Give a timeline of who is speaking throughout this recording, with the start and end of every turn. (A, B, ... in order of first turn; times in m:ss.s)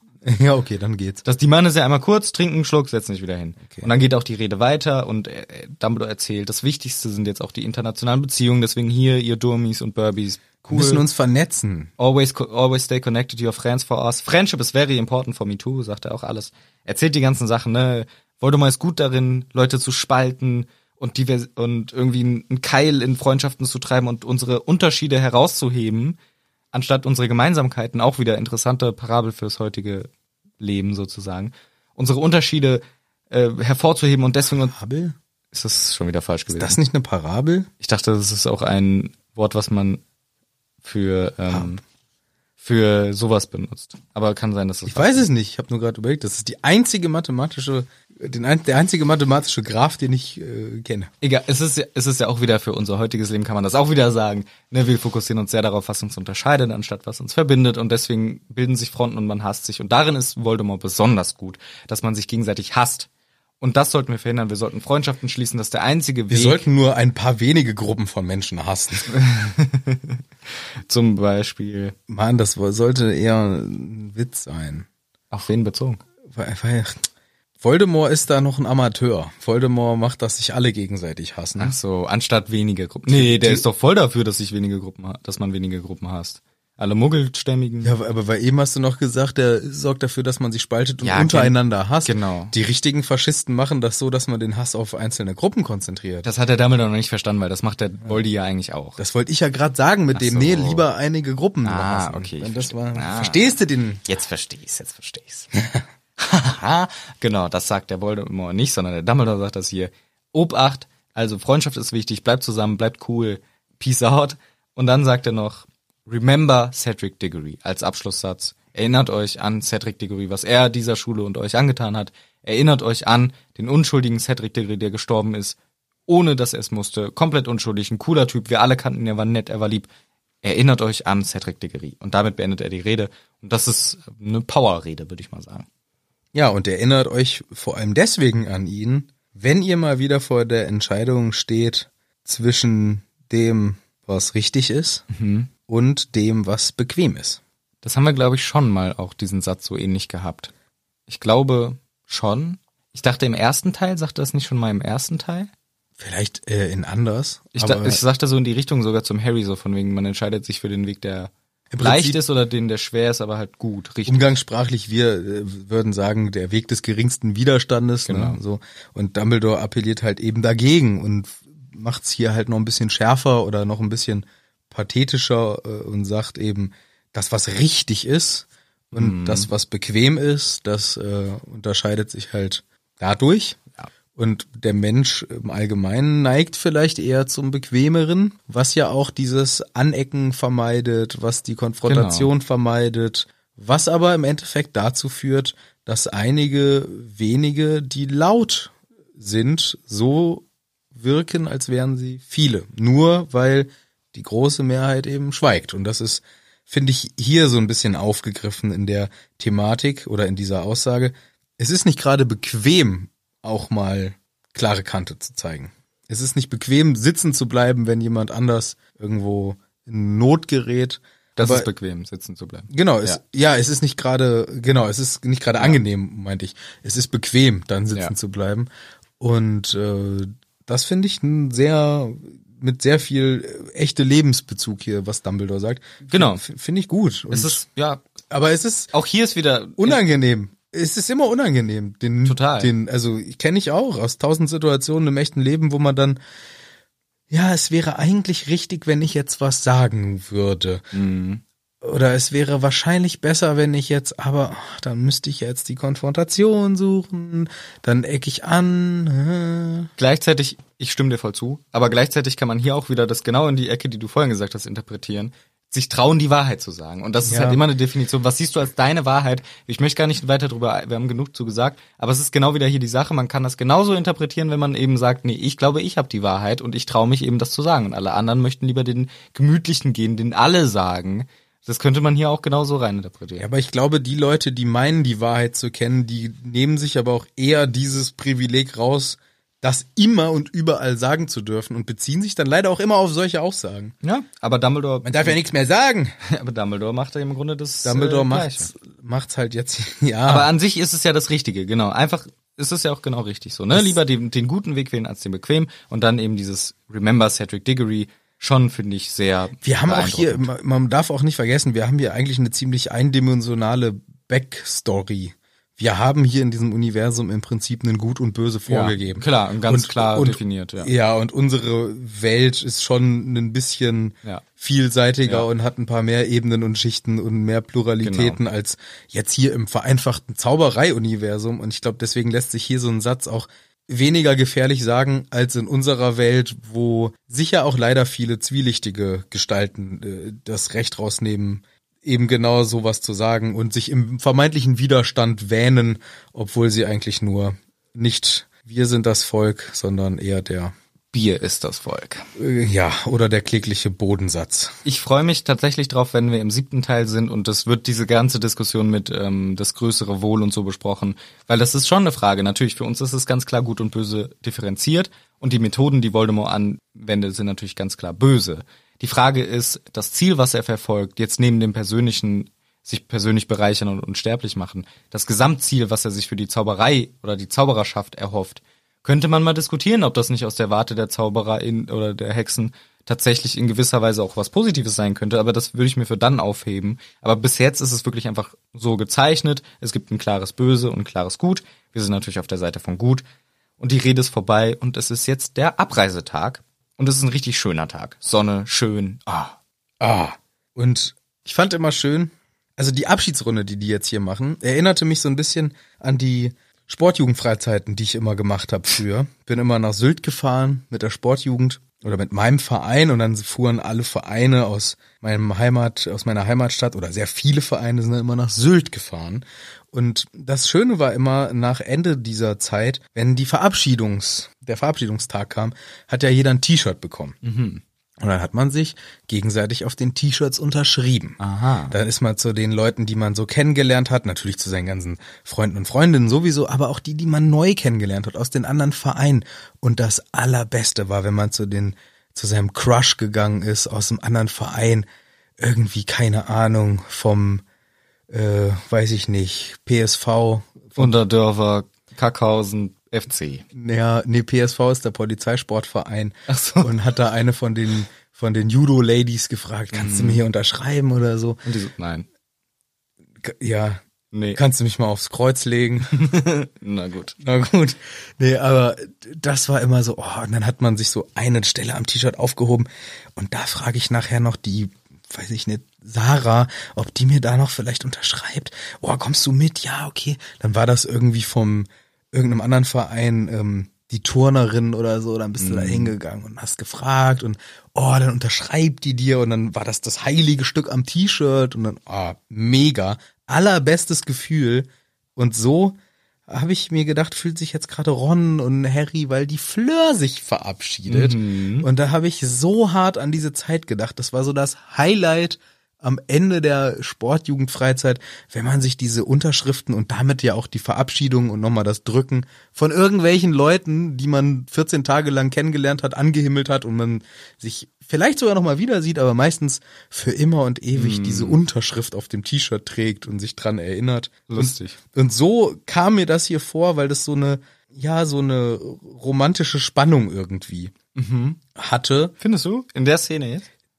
0:00.2-0:01.2 A
0:01.2-0:11.0 B
0:03.6-0:03.9 A
0:10.6-0:11.9 A
0:12.0-0:26.2 B
0:26.7-0:30.1 B
0:30.6-0:34.8 B
0:34.6-0:35.2 A
0:35.5-0:36.8 B
0:36.5-0:37.7 A
0:37.8-0:40.0 B
0:40.8-0:41.8 B
0:42.6-0:45.3 B
0:44.9-0:51.1 A
0:51.2-1:03.1 B
1:03.6-1:06.6 B
1:06.3-1:09.2 A
1:09.1-1:12.0 B
1:12.1-1:14.9 A
1:15.3-1:16.0 B
1:16.3-1:17.0 A
1:17.6-1:21.8 A
1:21.6-1:27.9 B
1:23.1-1:23.6 A
1:27.8-1:36.3 A
1:31.0-1:32.5 B
1:36.2-1:39.0 B
1:39.0-1:44.0 A
1:40.1-1:40.8 B
1:41.6-1:45.5 B
1:46.2-2:05.6 B
2:06.1-2:09.9 B
2:10.4-2:15.7 B
2:16.3-2:25.0 A
2:25.1-2:25.5 B
2:25.7-2:27.4 A
2:27.8-2:30.5 B
2:31.1-2:35.5 B
2:36.0-2:38.0 A
2:37.6-2:44.4 B
2:41.7-2:42.2 A
2:44.1-3:03.6 A
2:48.1-2:48.4 B
2:58.9-2:59.5 B
3:04.2-3:41.7 A
3:11.9-3:12.3 B
3:41.4-3:43.2 B
3:42.7-3:48.7 A
3:49.2-3:57.6 A
3:56.1-3:56.4 B
3:57.3-3:58.0 B
3:58.3-3:58.9 A
3:58.9-4:00.0 B
3:59.8-4:06.2 A
4:02.2-4:02.7 B
4:07.3-4:10.8 A
4:10.9-4:11.4 B
4:11.8-4:19.9 A
4:20.0-4:43.5 B
4:27.2-4:27.6 A
4:43.4-4:53.9 A
4:54.0-4:55.4 B
4:55.0-4:56.2 A
4:56.2-4:58.7 B
4:57.8-5:00.5 A
5:00.3-5:10.5 B
5:09.6-5:50.7 A
5:18.7-5:20.9 B
5:28.0-5:28.4 B
5:51.1-5:52.3 B
5:52.4-5:54.8 A
5:54.8-6:33.2 B
6:33.8-6:39.6 B
6:40.0-7:07.4 A
7:07.4-7:07.8 B
7:08.2-7:11.4 A
7:11.4-7:11.9 B
7:11.9-7:25.1 A
7:25.6-7:27.6 A
7:28.3-7:31.2 A
7:31.0-7:33.6 B
7:33.7-7:41.6 A
7:36.5-7:37.0 B
7:39.9-7:40.4 B
7:41.6-7:42.3 B
7:43.4-7:44.0 A
7:44.3-7:44.6 B
7:44.6-7:46.3 A
7:46.2-7:47.4 B
7:47.4-8:16.0 A
8:05.6-8:06.1 B
8:16.5-8:51.0 A
8:21.1-8:21.9 B
8:41.0-8:41.6 B
8:44.5-8:45.0 B
8:51.2-8:51.6 B
8:51.8-8:52.3 A
8:52.4-8:53.7 B